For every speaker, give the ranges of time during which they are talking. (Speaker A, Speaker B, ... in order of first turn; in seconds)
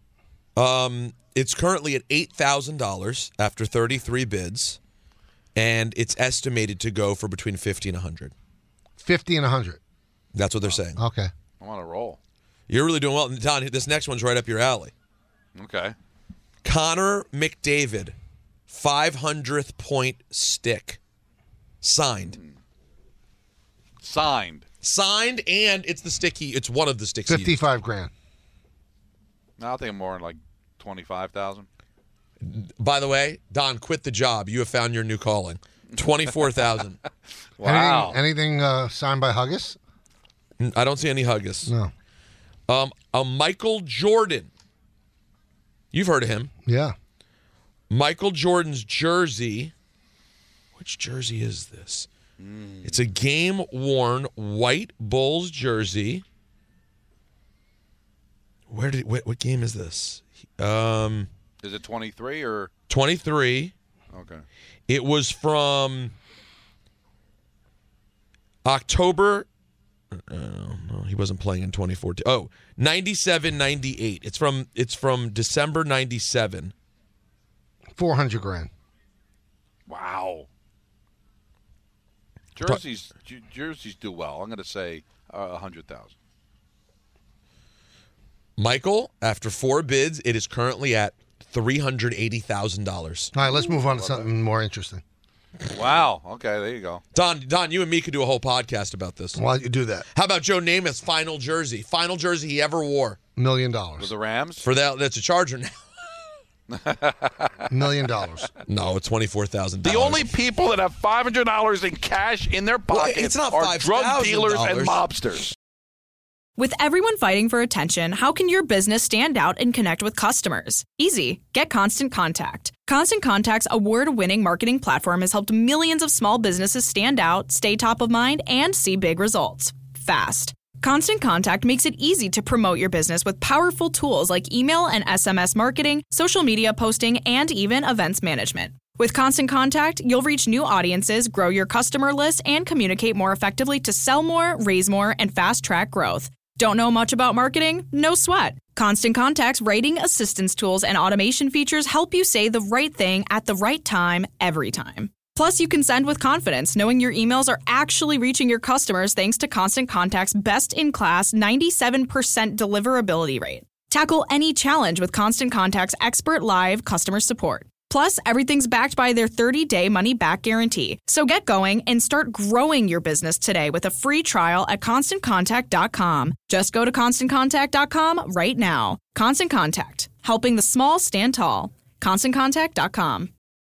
Speaker A: 0.6-4.8, 5.5-8.3, 10.3-11.0, 12.7-14.9, 16.6-18.1, 18.7-21.0, 21.8-22.4, 24.8-27.6, 32.4-37.0, 40.6-41.7, 42.7-44.5, 45.9-46.5, 47.9-49.7, 50.8-52.1, 52.8-56.2, 58.7-61.3, 62.9-63.7, 64.9-66.1, 68.6-69.5, 70.1-76.7, 88.6-93.3, 97.1-99.4, 100.1-103.2, 104.6-105.8, 108.7-110.3, 112.9-115.0
Speaker B: 9.0-9.8, 11.0-11.3, 27.3-28.1, 37.6-39.8, 41.6-41.9, 46.6-46.9, 78.0-78.7, 93.3-95.0, 99.3-100.1, 103.3-104.1, 107.7-108.5
Speaker C: 11.6-12.2, 15.6-15.9, 24.0-24.6, 29.6-31.7, 36.0-36.3, 37.6-38.2, 52.4-53.0, 61.6-62.7, 64.1-64.4, 79.9-80.5, 82.5-86.1, 93.4-94.3, 95.7-97.0, 104.0-104.6, 106.7-107.7, 109.8-115.5
Speaker D: 116.6-183.3